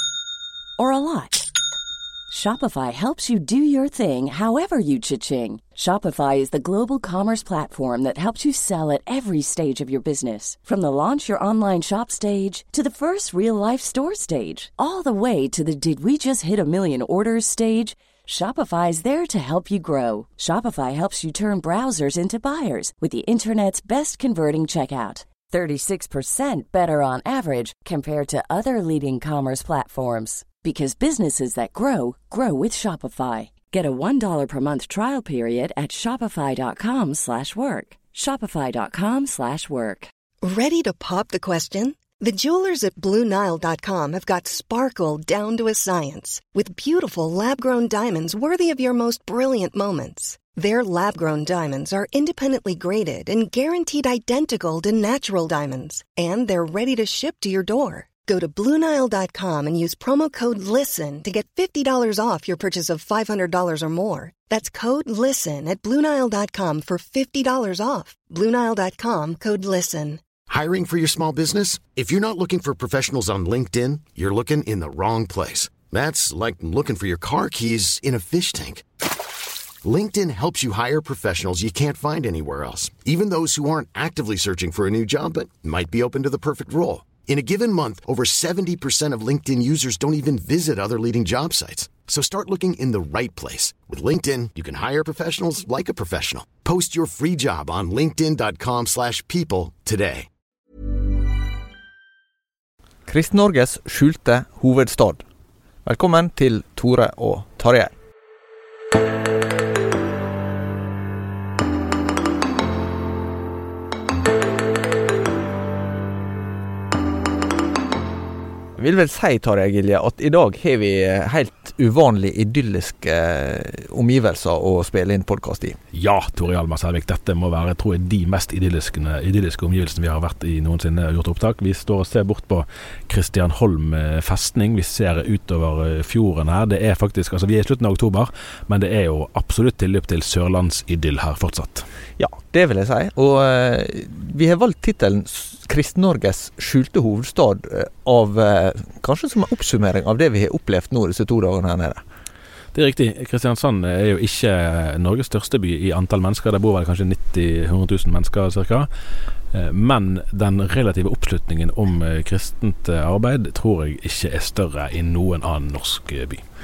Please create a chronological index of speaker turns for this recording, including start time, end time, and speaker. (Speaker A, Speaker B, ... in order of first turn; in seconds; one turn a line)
Speaker A: 0.8-1.5
Speaker A: 2.3-40.1
Speaker B: 40.4-70.2
Speaker C: 70.5-78.8
Speaker C: 79.8-100.3
Speaker D: 103.1-105.2
Speaker D: 105.8-107.9
Speaker D: 118.8-125.8
Speaker E: 125.9-141.9
Speaker D: 142.2-152.0
Speaker E: 152.7-158.9
Speaker E: 159.5-166.4